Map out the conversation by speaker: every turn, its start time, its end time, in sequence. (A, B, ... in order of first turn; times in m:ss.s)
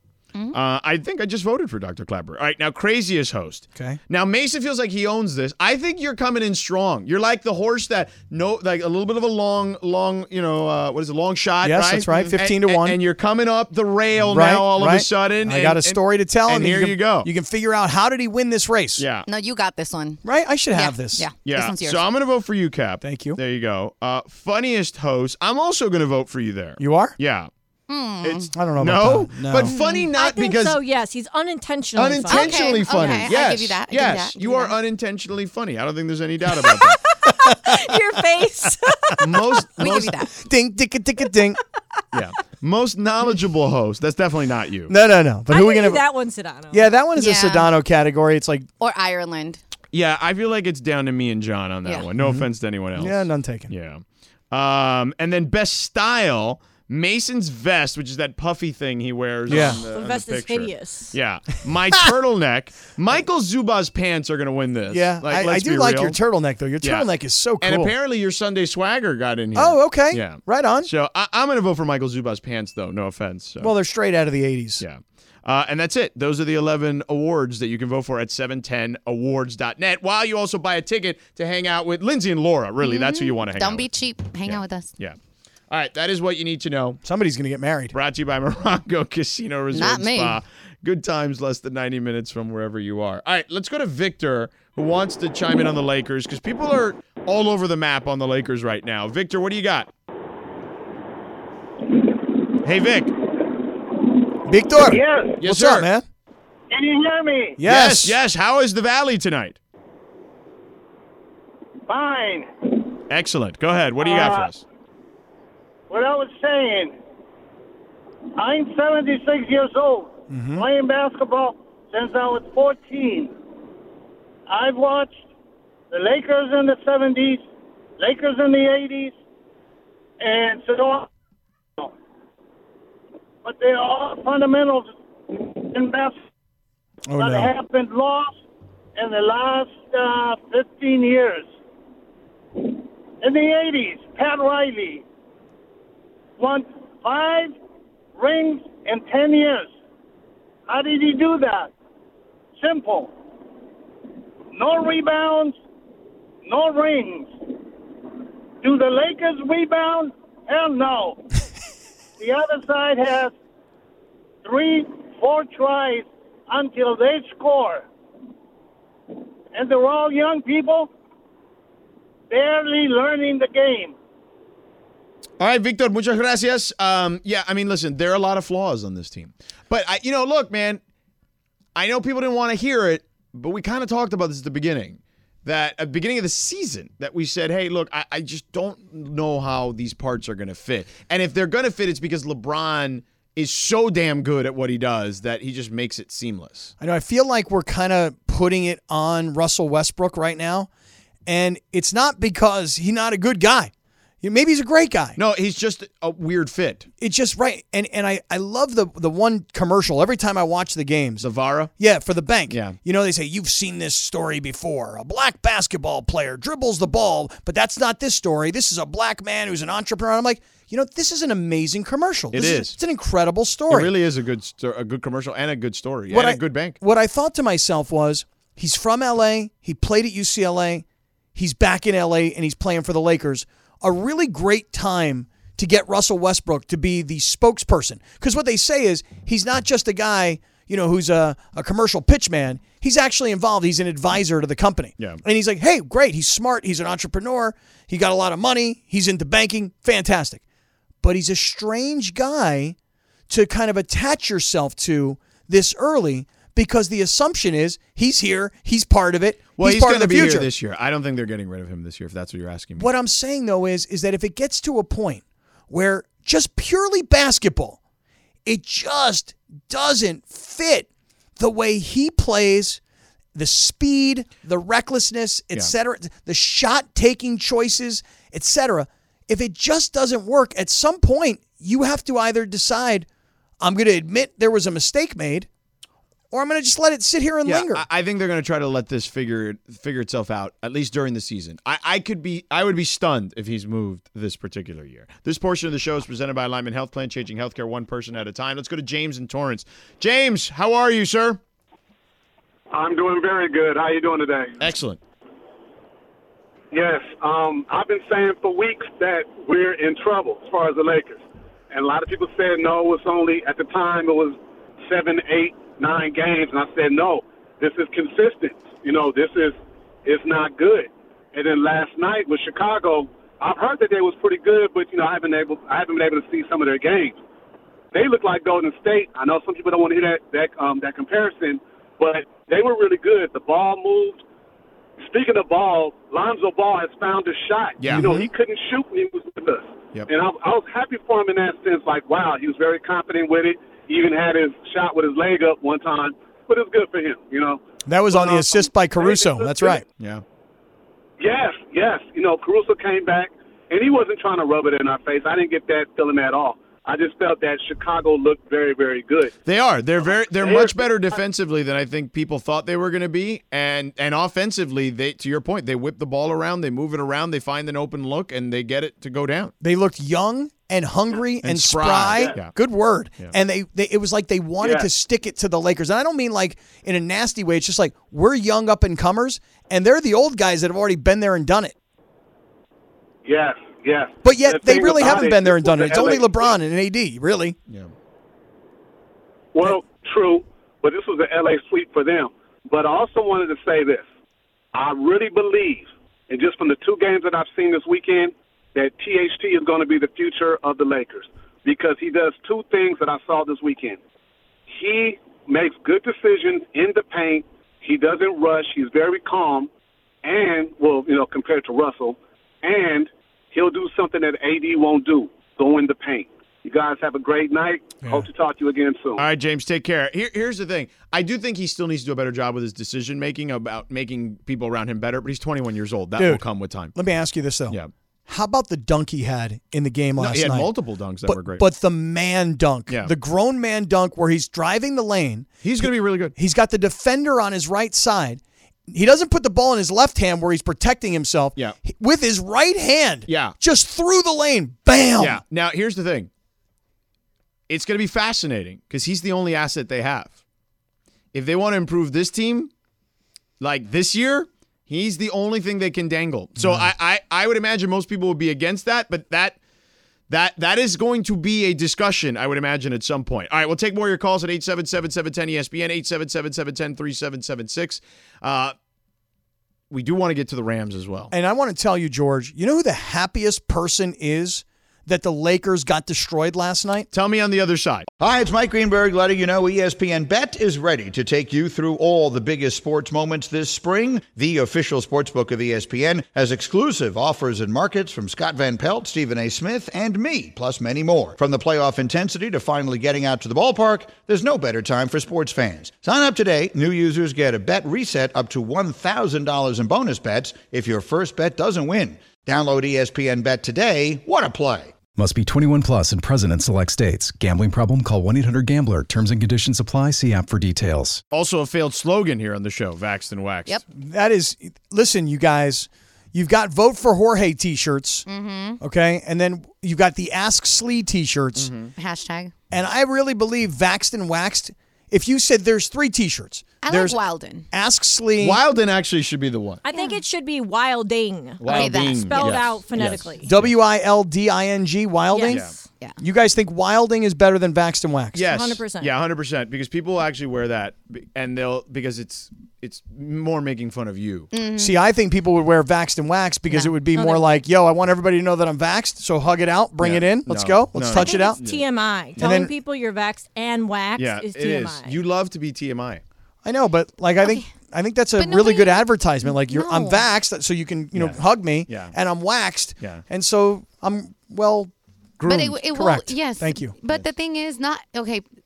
0:00.5-0:17.3 A
0:03.8-0:04.0 B
0:11.6-0:13.0 B
0:14.2-0:19.0 B
0:19.0-0:19.2 A
0:19.3-0:22.0 C
0:20.2-0:21.2 B
0:21.4-0:27.5 A
0:23.0-0:23.4 B
0:26.8-0:27.2 B
0:27.9-0:28.5 C
0:28.2-0:30.8 A
0:28.5-0:29.7 B
0:29.6-0:30.1 C
0:30.1-0:32.8 D
0:32.0-0:37.0 A
0:32.3-0:34.8 C
0:36.7-0:39.4 D
0:37.2-0:38.0 B
0:38.6-0:39.4 B
0:39.2-0:40.1 A
0:39.8-0:40.4 C
0:40.4-0:41.6 B
0:42.1-0:44.9 A
0:44.9-0:46.1 B
0:45.5-0:46.9 D
0:46.7-0:48.7 B
0:47.2-0:47.7 C
0:48.8-0:49.6 C
0:49.9-1:06.2 A
0:52.2-0:53.7 B
0:59.5-0:59.8 B
0:59.5-1:01.2 D
1:04.9-1:07.9 B
1:06.8-1:07.1 A
1:07.6-1:13.7 A
1:09.6-1:10.9 B
1:13.6-1:14.8 B
1:14.8-1:23.9 A
1:22.8-1:24.9 C
1:24.4-1:25.2 A
1:25.7-1:27.0 A
1:27.0-1:28.0 B
1:27.9-1:39.9 A
1:29.7-1:30.4 C
1:42.6-1:43.1 A
1:44.5-1:46.0 B
1:44.8-1:45.4 E
1:45.4-1:45.9 A
1:46.7-1:47.6 E
1:47.6-1:48.2 B
1:47.6-1:49.6 A
1:51.9-1:53.0 E
1:53.1-1:54.6 A
1:54.0-1:54.5 E
1:55.9-1:57.0 E
1:58.4-2:03.3 E
2:00.3-2:00.7 B
2:04.5-2:05.2 E
2:05.9-2:07.4 E
2:08.0-2:09.2 E
2:10.2-2:11.1 E
2:13.4-2:16.2 E
2:17.1-2:17.5 B
2:17.2-2:18.4 E
2:19.0-2:21.5 E
2:22.6-2:25.0 E
2:26.4-2:27.6 E
2:28.2-2:29.7 E
2:30.7-2:31.7 E
2:32.6-2:33.2 E
2:34.5-2:35.6 E
2:36.4-2:37.5 E
2:38.6-2:41.2 E
2:42.2-2:43.3 E
2:44.4-2:47.9 E
2:49.5-2:50.9 E
2:52.3-2:54.0 E
2:55.4-3:00.8 A
3:01.8-3:16.7 A
3:16.8-3:20.7 B
3:21.3-3:23.7 B
3:24.2-3:25.2 B
3:25.2-3:26.9 A
3:27.0-3:31.2 B
3:31.2-3:31.7 A
3:31.8-3:43.9 B
3:32.5-3:32.8 A
3:42.3-3:42.8 A
3:43.7-3:46.8 A
3:46.1-4:10.4 B
4:11.0-4:12.8 B
4:13.3-4:20.5 B
4:19.6-4:22.9 A
4:22.8-4:27.8 B
4:28.5-4:32.8 B
4:33.4-4:43.1 B
4:43.6-4:45.5 B
4:46.3-4:47.8 B
4:47.4-5:01.4 A
5:02.7-5:04.6 F
5:04.6-5:05.0 A
5:06.7-5:27.2 F
5:27.9-5:34.2 F
5:35.0-5:47.6 F
5:37.8-5:38.1 A
5:37.9-5:38.3 B
5:47.9-5:49.8 B
5:48.2-5:49.8 F
5:51.2-5:59.4 F
5:59.5-6:09.5 A
6:00.1-6:01.0 F
6:09.6-6:21.8 B
6:11.4-6:12.5 A
6:14.6-6:14.9 F
6:23.2-6:26.5 F
6:24.2-6:27.6 B
6:29.5-6:34.1 F
6:34.7-6:44.0 F
6:44.7-6:49.7 F
6:50.2-6:59.2 F
6:59.2-7:06.9 A
7:06.2-7:10.7 B
7:10.2-7:11.6 A
7:11.2-7:25.4 B
7:12.9-7:13.1 A
7:15.6-7:16.4 A
7:23.3-7:23.6 A
7:25.2-7:26.3 A
7:27.7-7:30.3 A
7:31.3-7:32.7 A
7:33.6-7:39.6 A
7:36.6-7:36.9 B
7:40.3-7:48.8 A
7:49.9-7:51.3 A
7:51.3-7:57.1 B
7:57.1-7:58.1 A
7:58.2-8:25.0 G
8:25.2-8:31.2 H
8:31.3-8:33.8 A
8:33.9-8:38.3 B
8:38.3-8:38.8 C
8:38.8-8:41.7 B
8:41.6-8:41.9 A
8:42.0-8:42.5 C
8:42.7-8:48.6 B
8:46.8-8:47.7 C
8:48.4-8:49.8 A
8:49.9-8:53.5 D
8:49.9-8:50.2 C
8:51.6-8:53.7 A
8:51.6-8:52.6 C
8:53.4-8:55.7 B
8:55.3-8:56.2 C
8:55.5-8:55.8 A
8:55.6-8:55.9 D
8:56.2-8:58.5 B
8:58.4-9:04.5 A
8:58.4-8:59.1 D
9:04.5-9:05.0 C
9:04.8-9:11.6 B
9:06.7-9:07.2 C
9:10.0-9:12.6 A
9:11.1-9:15.2 D
9:12.4-9:12.7 B
9:14.2-9:16.2 A
9:16.6-9:26.9 B
9:17.4-9:17.7 C
9:18.4-9:20.3 C
9:21.1-9:22.1 A
9:25.4-9:25.7 A
9:25.4-9:28.5 C